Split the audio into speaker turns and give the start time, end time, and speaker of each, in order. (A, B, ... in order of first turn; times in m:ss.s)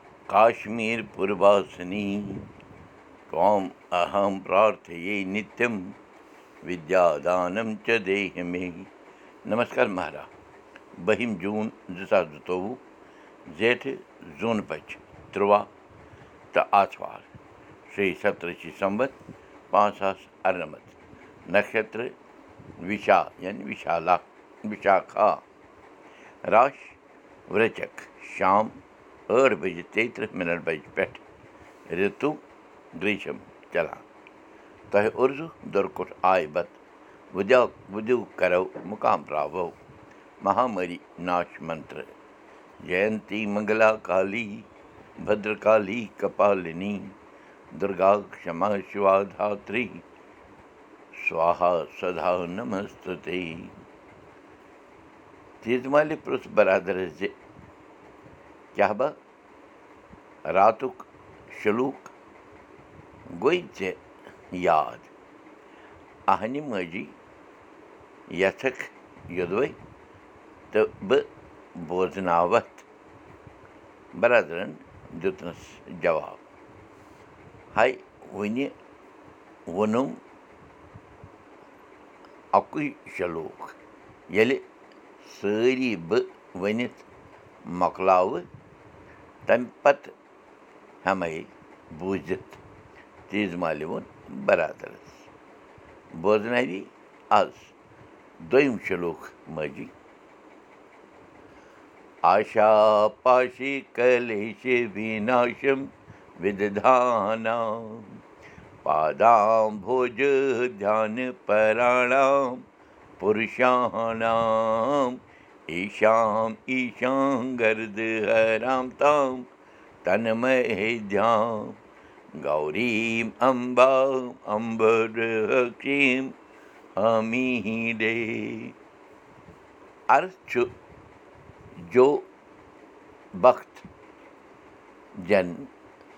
0:00.3-0:02.5 A
0:03.3-0:05.9 A
0:06.6-0:08.9 A
0:09.4-0:10.3 A
0:11.0-0:12.8 A
0:13.5-0:15.7 A
0:16.5-0:17.3 A
0:17.9-0:19.2 A
0:19.7-0:22.1 A
0:22.8-0:25.4 A
0:26.5-0:28.8 A
0:29.3-0:31.2 A
0:31.9-0:32.4 A
0:32.9-0:34.0 A
0:34.9-0:36.8 A
0:37.3-0:39.8 A
0:40.4-0:42.1 A
0:42.8-0:44.7 A
0:45.2-0:47.1 A
0:47.7-0:50.0 A
0:51.2-0:53.7 A
0:55.6-0:57.3 A
0:58.7-0:59.2 A
1:00.5-1:02.1 A
1:03.3-1:04.0 A
1:04.5-1:05.1 A
1:06.3-1:07.1 A
1:08.3-1:09.8 A
1:10.7-1:12.8 A
1:14.1-1:16.4 A
1:17.7-1:18.7 A
1:19.7-1:20.2 A
1:22.5-1:23.8 A
1:24.3-1:24.6 A
1:25.2-1:27.0 A
1:27.6-1:28.4 A
1:29.4-1:30.1 A
1:31.0-1:32.6 A
1:33.3-1:35.3 A
1:36.1-1:37.7 A
1:38.4-1:39.9 A
1:42.2-1:45.9 A
1:46.4-1:48.2 A
1:48.8-1:52.6 A
1:53.2-1:55.2 A
1:55.7-1:59.5 A
2:00.0-2:01.8 A
2:02.4-2:06.3 A
2:07.0-2:08.7 A
2:10.1-2:10.7 A
2:11.8-2:12.2 A
2:13.4-2:13.9 A
2:15.2-2:15.7 A